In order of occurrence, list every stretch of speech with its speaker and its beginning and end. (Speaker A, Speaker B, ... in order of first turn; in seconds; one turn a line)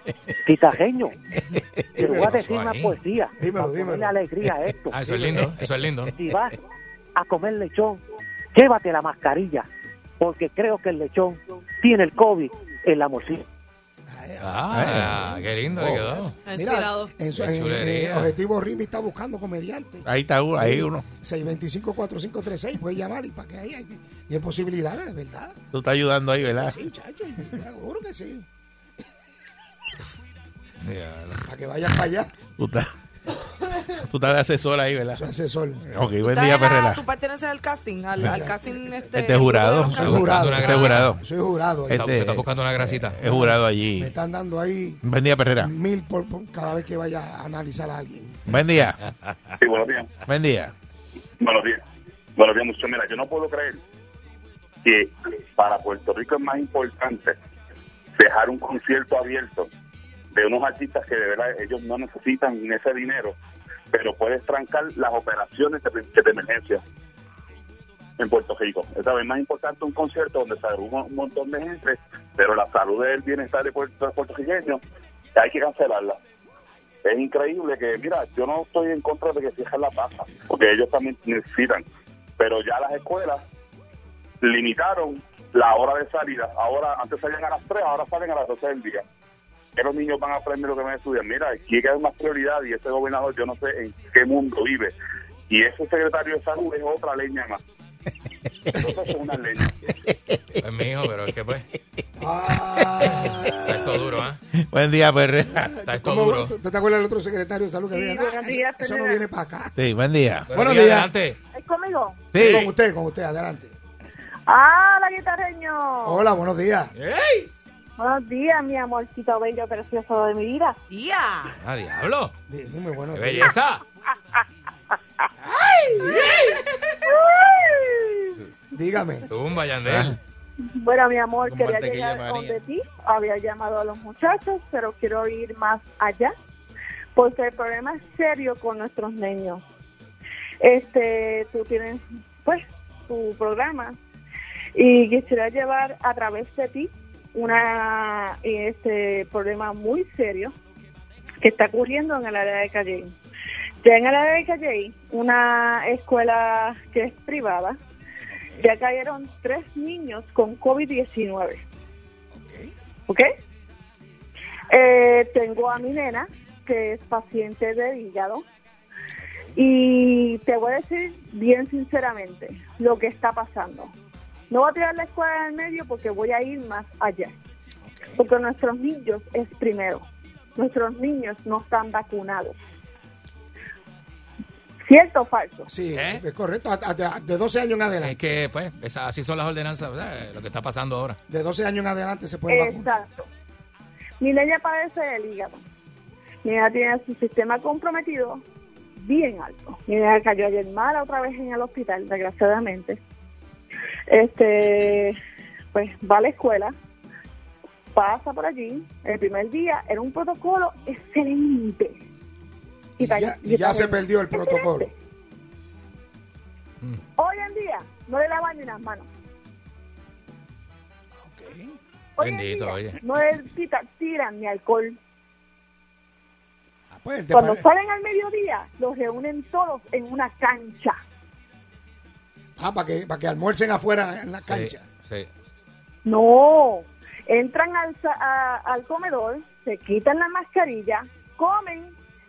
Speaker A: 0.5-1.2
Speaker A: 2.0-5.0
Speaker B: 2.0-2.4
Speaker C: 2.4-3.0
Speaker B: 3.4-4.2
Speaker C: 4.9-6.1
Speaker B: 5.1-5.4
Speaker A: 6.1-6.6
Speaker A: 7.2-8.0
Speaker A: 8.5-9.7
Speaker A: 10.2-13.4
Speaker B: 14.1-15.3
Speaker C: 14.4-16.4
Speaker D: 14.7-16.0
Speaker B: 15.8-20.1
Speaker E: 16.4-17.1
Speaker C: 17.4-18.3
Speaker D: 20.1-21.1
Speaker B: 20.6-25.6
Speaker D: 25.7-26.8
Speaker B: 26.6-28.5
Speaker C: 30.8-31.4
Speaker B: 31.4-32.3
Speaker D: 32.6-32.9
Speaker D: 34.0-35.2
Speaker B: 35.1-35.9
Speaker D: 35.9-37.0
Speaker E: 36.2-40.7
Speaker B: 38.2-38.8
Speaker D: 39.1-41.2
Speaker B: 39.6-42.1
Speaker C: 39.9-41.1
Speaker D: 41.9-44.1
Speaker C: 41.9-43.2
Speaker B: 43.2-45.0
Speaker D: 45.0-45.7
Speaker B: 45.6-48.4
Speaker D: 48.5-49.0
Speaker F: 49.6-50.1
Speaker D: 50.3-50.7
Speaker F: 51.4-51.8
Speaker F: 52.4-53.8
Speaker F: 54.8-57.4
Speaker F: 58.2-59.7
Speaker F: 60.3-63.4
Speaker F: 63.9-66.8
Speaker F: 68.2-74.8
Speaker F: 75.3-76.2
Speaker F: 77.0-81.9
Speaker F: 82.4-83.4
Speaker F: 84.4-89.0
Speaker F: 89.8-94.9
Speaker F: 95.5-97.6
Speaker F: 98.8-99.7
Speaker C: 100.6-101.7
Speaker B: 102.2-104.1
Speaker D: 102.5-103.5
Speaker C: 103.6-104.4
Speaker D: 104.6-105.8
Speaker B: 105.5-109.8
Speaker C: 105.9-106.5
Speaker G: 107.9-109.2
Speaker D: 109.8-110.5
Speaker C: 110.5-111.4
Speaker B: 110.5-111.1
Speaker G: 111.5-112.2
Speaker D: 112.3-112.7
Speaker B: 112.3-113.8
Speaker C: 112.4-112.7
Speaker G: 114.5-116.2
Speaker B: 116.0-116.9
Speaker C: 117.0-117.5
Speaker G: 118.0-120.8
Speaker E: 120.9-121.5
Speaker C: 121.6-122.3
Speaker B: 122.5-123.5
Speaker C: 123.1-123.8
Speaker E: 126.1-126.6
Speaker G: 127.1-128.3
Speaker B: 128.7-129.3
Speaker C: 129.3-130.2
Speaker D: 129.8-130.2
Speaker G: 130.6-136.3
Speaker D: 131.4-132.6
Speaker G: 137.2-139.6
Speaker G: 140.6-144.0
Speaker G: 144.8-150.5
Speaker G: 151.4-153.1
Speaker G: 153.8-157.8
Speaker G: 158.6-161.6
Speaker G: 163.1-163.3
Speaker G: 164.7-168.4
Speaker G: 169.6-173.9
Speaker G: 174.5-177.3
Speaker G: 178.2-182.6
Speaker G: 184.8-185.7
Speaker B: 185.7-188.2
Speaker C: 185.9-186.2
Speaker C: 188.0-191.2
Speaker B: 191.3-193.0
Speaker G: 192.5-193.3
Speaker G: 194.2-195.6
Speaker G: 196.4-198.4
Speaker G: 199.0-203.0
Speaker G: 204.1-205.2
Speaker G: 205.7-206.7
Speaker G: 207.9-212.0
Speaker B: 213.0-214.9
Speaker G: 213.0-214.9
Speaker G: 217.2-219.1
Speaker B: 221.3-221.7
Speaker G: 222.2-225.0
Speaker C: 222.2-223.0
Speaker B: 226.9-227.7
Speaker G: 227.3-231.0
Speaker B: 232.6-234.8
Speaker C: 234.5-235.3
Speaker G: 236.1-241.9